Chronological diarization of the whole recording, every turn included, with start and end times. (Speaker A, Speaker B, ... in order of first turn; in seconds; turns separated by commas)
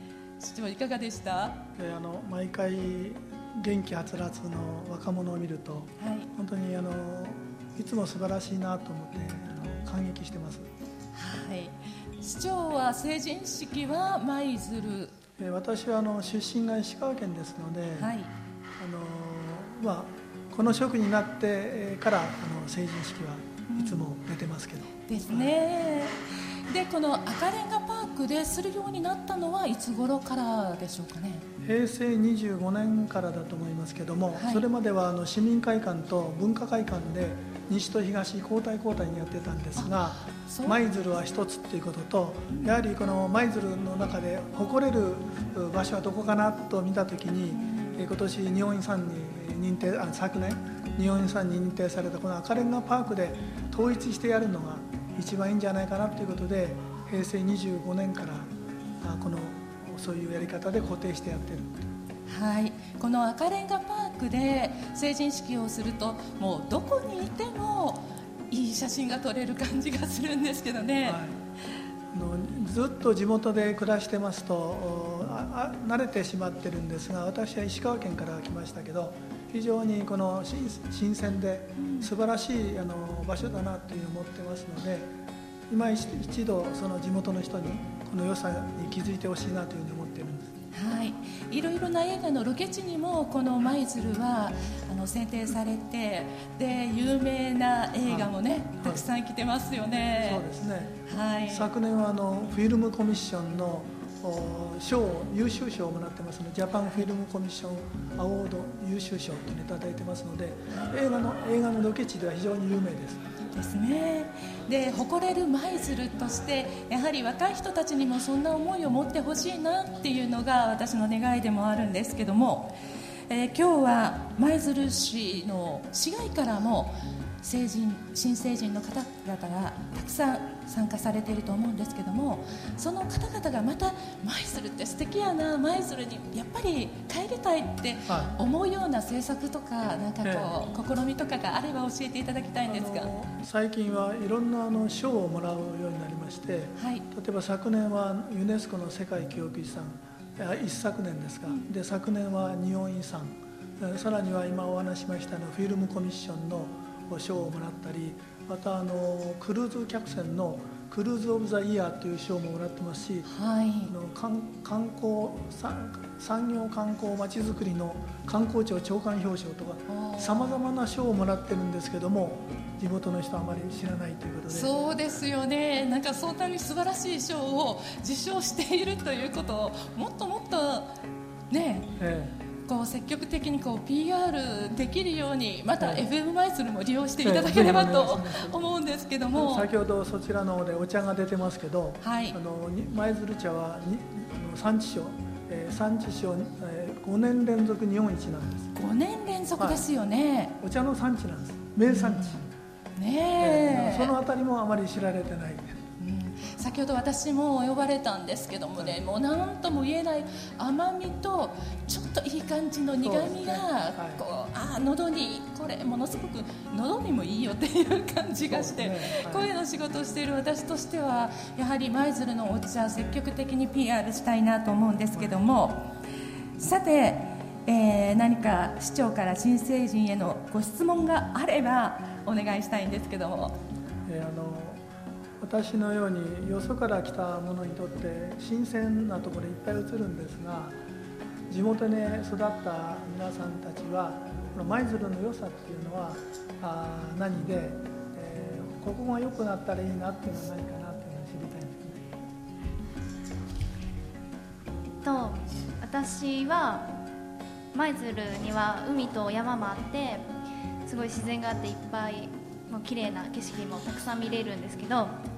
Speaker A: 0.4-1.6, Speaker B: 1.8-10.7, Speaker A: 6.0-6.3, Speaker A: 11.1-15.1, Speaker B: 15.4-18.1, Speaker A: 18.0-18.3, Speaker B: 18.8-25.6, Speaker A: 23.7-24.1, Speaker A: 25.1-26.2, Speaker A: 26.7-31.4, Speaker B: 31.6-61.9, Speaker A: 34.3-34.6, Speaker A: 39.8-40.8, Speaker A: 42.5-42.8, Speaker A: 47.5-48.0, Speaker A: 62.3-71.2, Speaker B: 71.0-71.3, Speaker B: 72.1-85.1, Speaker A: 81.8-82.1, Speaker B: 85.7-90.5, Speaker A: 90.7-100.4, Speaker B: 98.0-99.1, Speaker B: 100.1-113.2, Speaker A: 101.1-101.7, Speaker A: 113.5-122.8, Speaker A: 123.3-143.1, Speaker B: 138.1-138.3, Speaker B: 140.2-140.5, Speaker B: 142.7-163.3, Speaker A: 146.8-147.0, Speaker A: 163.3-163.9, Speaker B: 163.9-174.7, Speaker A: 169.9-170.6, Speaker A: 174.5-181.0, Speaker A: 181.5-181.9, Speaker B: 182.0-182.3, Speaker A: 182.7-189.7, Speaker B: 185.8-186.0, Speaker B: 187.2-188.6, Speaker B: 189.3-198.7, Speaker A: 192.0-192.3, Speaker A: 198.7-200.5, Speaker B: 199.6-199.8, Speaker B: 200.6-202.5, Speaker A: 201.9-202.4, Speaker A: 203.0-204.1, Speaker B: 203.4-205.8, Speaker A: 206.0-225.9, Speaker B: 213.0-214.2, Speaker B: 218.5-219.5, Speaker B: 225.1-225.4, Speaker A: 226.6-233.6, Speaker B: 234.1-234.8, Speaker B: 235.4-240.8, Speaker B: 241.5-252.2, Speaker C: 254.8-256.9, Speaker C: 257.7-260.3, Speaker C: 260.8-265.2